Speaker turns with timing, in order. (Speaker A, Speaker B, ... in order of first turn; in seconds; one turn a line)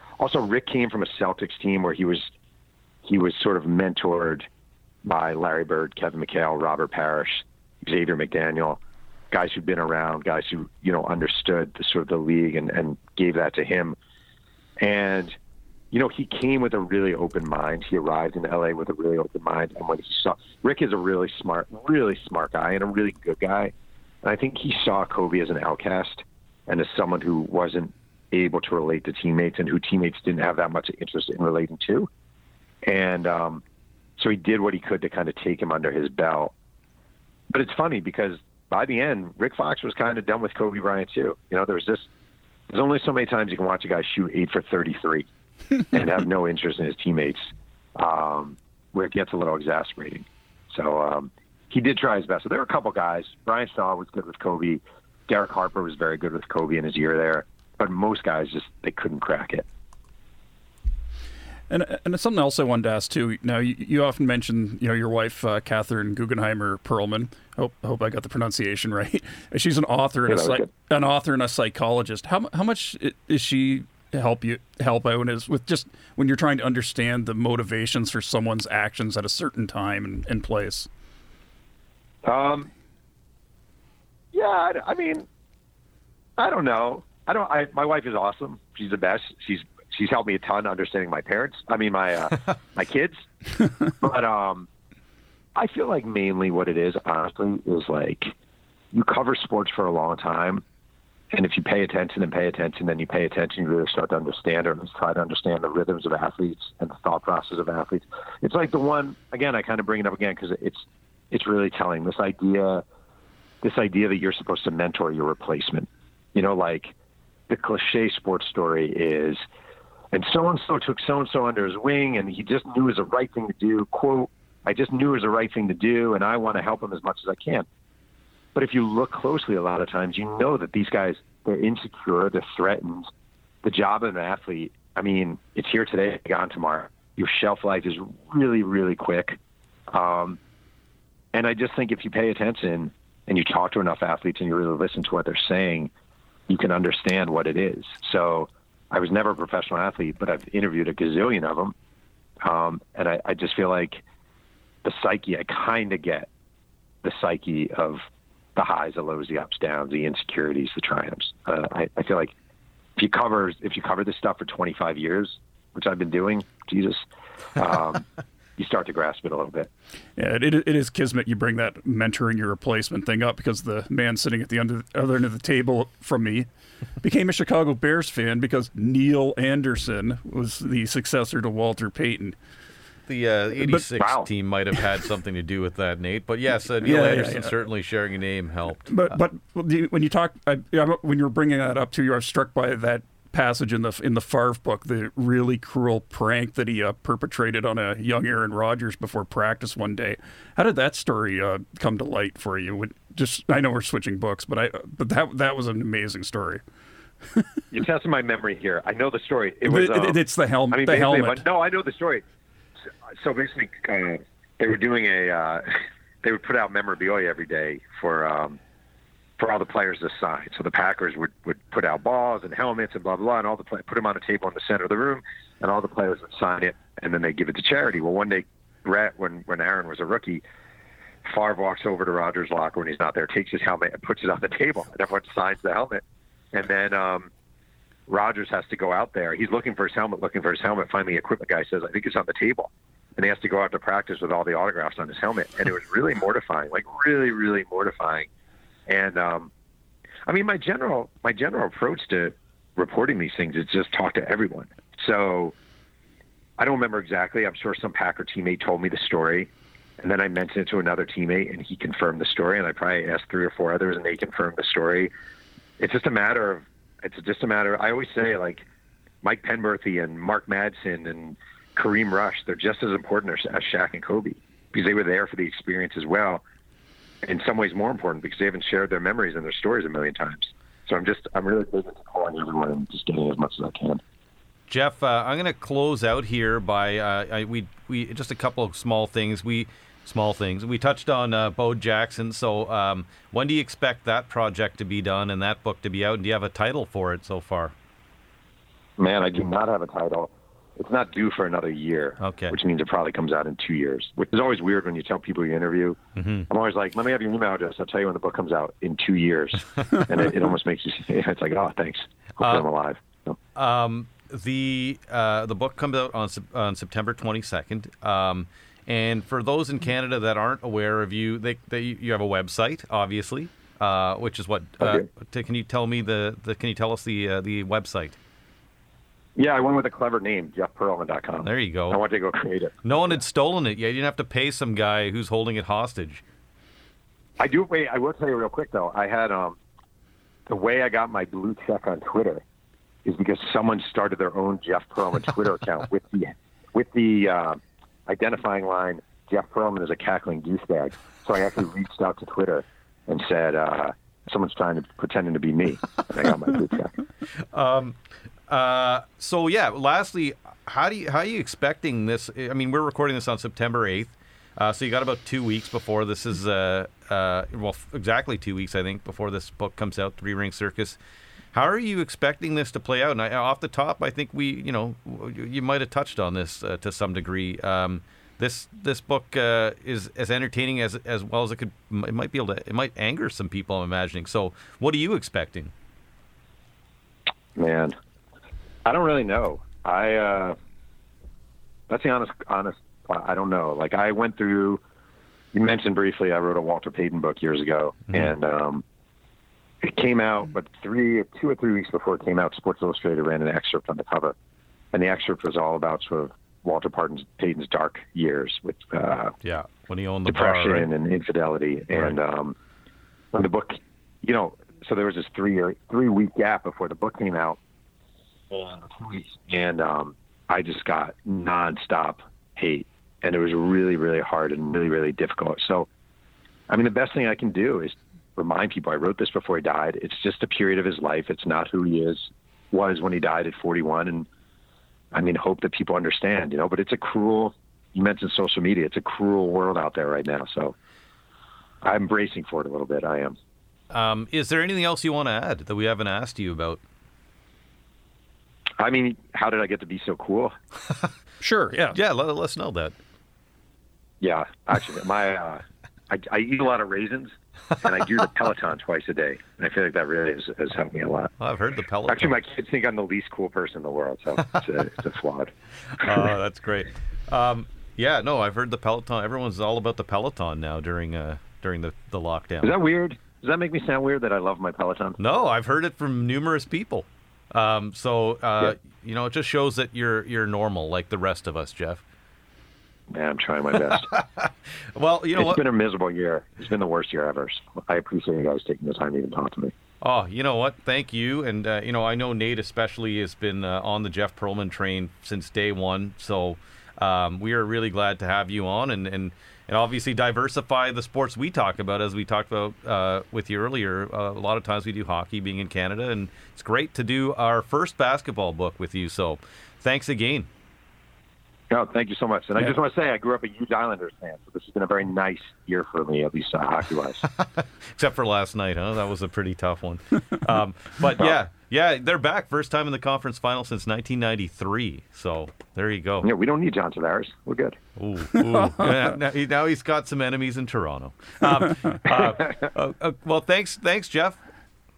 Speaker A: 0.2-2.3
Speaker A: 3.0-4.5
Speaker A: 5.0-8.8
Speaker A: 9.3-14.0
Speaker A: 14.8-15.4
Speaker A: 15.9-32.1
Speaker A: 32.8-33.6
Speaker A: 34.2-36.5
Speaker A: 37.5-42.1
Speaker A: 42.7-45.3
Speaker A: 45.9-59.7
Speaker B: 61.7-80.9
Speaker A: 70.3-70.7
Speaker A: 82.2-82.7
Speaker A: 84.3-85.3
Speaker A: 86.4-93.3
Speaker A: 93.8-94.7
Speaker A: 95.6-98.3
Speaker A: 98.9-100.6
Speaker A: 101.3-112.8
Speaker A: 113.6-117.0
Speaker A: 117.5-119.4
Speaker A: 120.1-127.7
Speaker A: 128.6-133.1
Speaker A: 133.6-139.4
Speaker A: 139.9-140.4
Speaker A: 141.3-145.9
Speaker A: 146.5-151.8
Speaker A: 152.4-154.0
Speaker A: 154.8-156.3
Speaker A: 157.0-158.0
Speaker A: 158.6-162.3
Speaker A: 163.0-167.0
Speaker A: 167.6-168.1
Speaker A: 168.6-169.7
Speaker B: 170.2-176.5
Speaker B: 177.0-182.4
Speaker C: 183.1-189.2
Speaker B: 183.6-183.8
Speaker A: 184.0-184.3
Speaker B: 186.8-187.5
Speaker B: 188.9-206.6
Speaker A: 207.7-212.2
Speaker B: 209.7-211.4
Speaker A: 213.1-218.6
Speaker A: 219.4-230.4
Speaker A: 231.2-237.3
Speaker A: 238.1-248.3
Speaker A: 248.9-249.5
Speaker A: 250.3-255.6
Speaker A: 256.6-265.1
Speaker A: 265.8-268.7
Speaker A: 269.2-276.4
Speaker A: 277.2-284.0
Speaker C: 284.7-297.7
Speaker A: 299.0-313.4
Speaker C: 302.2-302.6
Speaker C: 306.2-306.5
Speaker C: 313.6-328.2
Speaker A: 329.4-333.2
Speaker C: 331.4-332.0
Speaker C: 332.8-336.2
Speaker A: 337.4-339.6
Speaker A: 340.5-342.4
Speaker A: 343.1-356.9
Speaker C: 357.5-358.0
Speaker C: 358.5-371.0
Speaker C: 371.5-385.7
Speaker A: 387.6-388.0
Speaker A: 388.9-390.6
Speaker A: 391.9-394.8
Speaker A: 395.5-398.8
Speaker A: 399.8-404.4
Speaker A: 404.9-409.4
Speaker C: 409.4-410.9
Speaker A: 410.3-412.6
Speaker A: 413.3-417.6
Speaker A: 418.5-425.9
Speaker A: 426.7-434.3
Speaker A: 435.1-440.8
Speaker A: 441.8-443.4
Speaker C: 443.9-446.8
Speaker A: 448.8-450.5
Speaker B: 451.4-452.0
Speaker C: 451.9-452.9
Speaker A: 454.2-461.3
Speaker C: 461.4-462.4
Speaker A: 462.1-466.3
Speaker C: 465.9-472.7
Speaker A: 472.6-475.2
Speaker C: 475.2-482.0
Speaker A: 483.1-484.1
Speaker C: 483.9-485.6
Speaker A: 485.4-489.7
Speaker C: 490.0-510.5
Speaker A: 511.7-517.2
Speaker C: 517.4-526.3
Speaker A: 526.2-527.8
Speaker C: 528.0-534.4